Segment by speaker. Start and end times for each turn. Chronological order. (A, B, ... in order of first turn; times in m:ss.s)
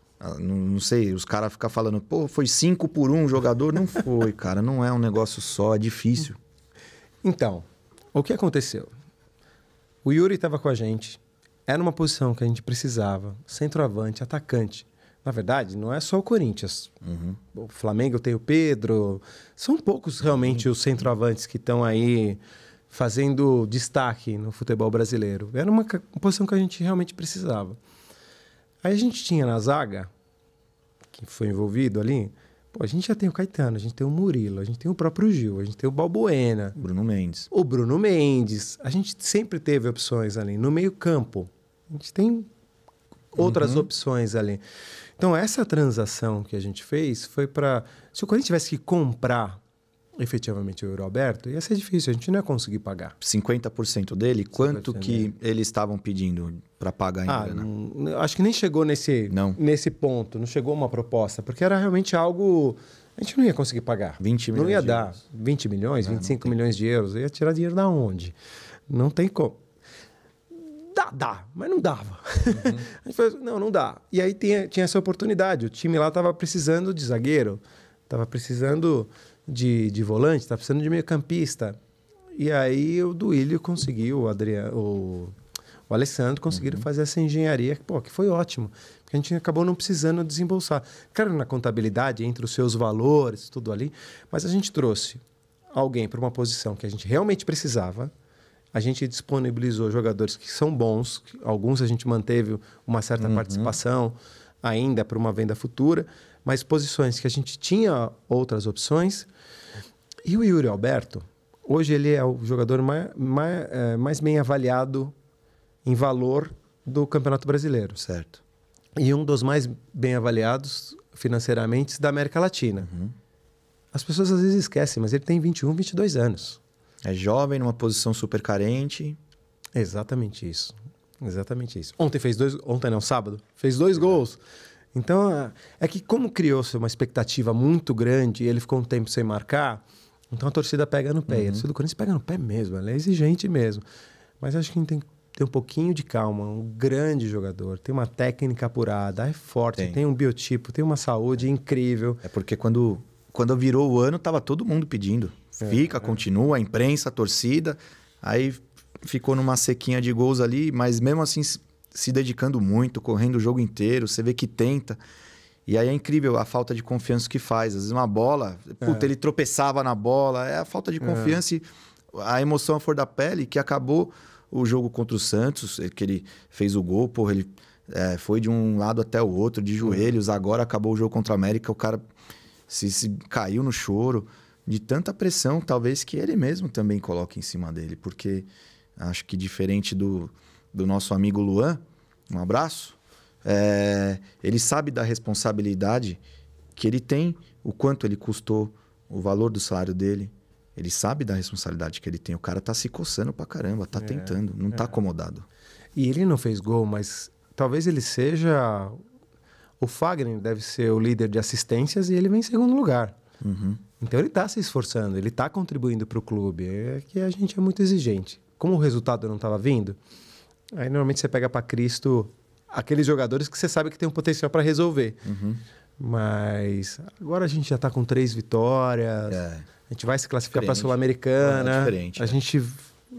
0:00.2-0:06.4 A
0:07.2-0:08.9 B
0:10.0-0:16.9 B
0:17.0-0:17.4 A
0:17.5-0:27.8 B
0:20.4-0:20.6 A
0:28.8-0:30.1 B
0:31.1-0:36.8 B
0:36.8-0:37.5 A
0:37.5-0:42.5 B
0:43.3-0:44.6 B
0:43.4-0:43.9 A
0:45.2-0:49.6 B
0:50.2-0:53.2 B
0:53.2-0:57.7 A
0:54.5-0:55.3 B
0:57.2-1:08.3 B
0:59.3-0:59.6 A
1:04.2-1:05.2 A
1:06.0-1:06.5 A
1:08.9-1:09.6 B
1:10.5-1:21.8 B
1:12.5-1:12.8 A
1:22.4-1:25.4 B
1:25.9-1:35.2 B
1:26.5-1:26.8 A
1:35.7-1:38.1 B
1:38.7-1:49.3 B
1:43.2-1:43.7 A
1:50.2-1:55.1 B
1:55.8-1:58.0 B
1:58.0-1:58.4 A
1:59.0-2:02.9 B
2:02.8-2:03.1 A
2:03.9-2:06.6 B
2:07.0-2:09.2 A
2:09.7-2:14.4 B
2:14.9-2:23.8 B
2:21.3-2:21.6 A
2:24.4-2:32.2 B
2:32.2-2:45.0 A
2:45.7-3:02.0 A
2:51.0-2:51.4 B
2:59.8-3:00.1 B
3:02.7-3:11.8 A
3:12.3-3:16.2 A
3:16.8-3:25.4 A
3:24.0-3:24.4 B
3:26.0-3:29.0 B
3:29.8-3:33.2 B
3:33.4-3:33.8 A
3:34.0-3:40.0 B
3:40.8-3:45.2 B
3:45.2-3:45.6 A
3:46.0-3:52.9 B
3:49.3-3:49.7 A
3:50.5-3:52.4 A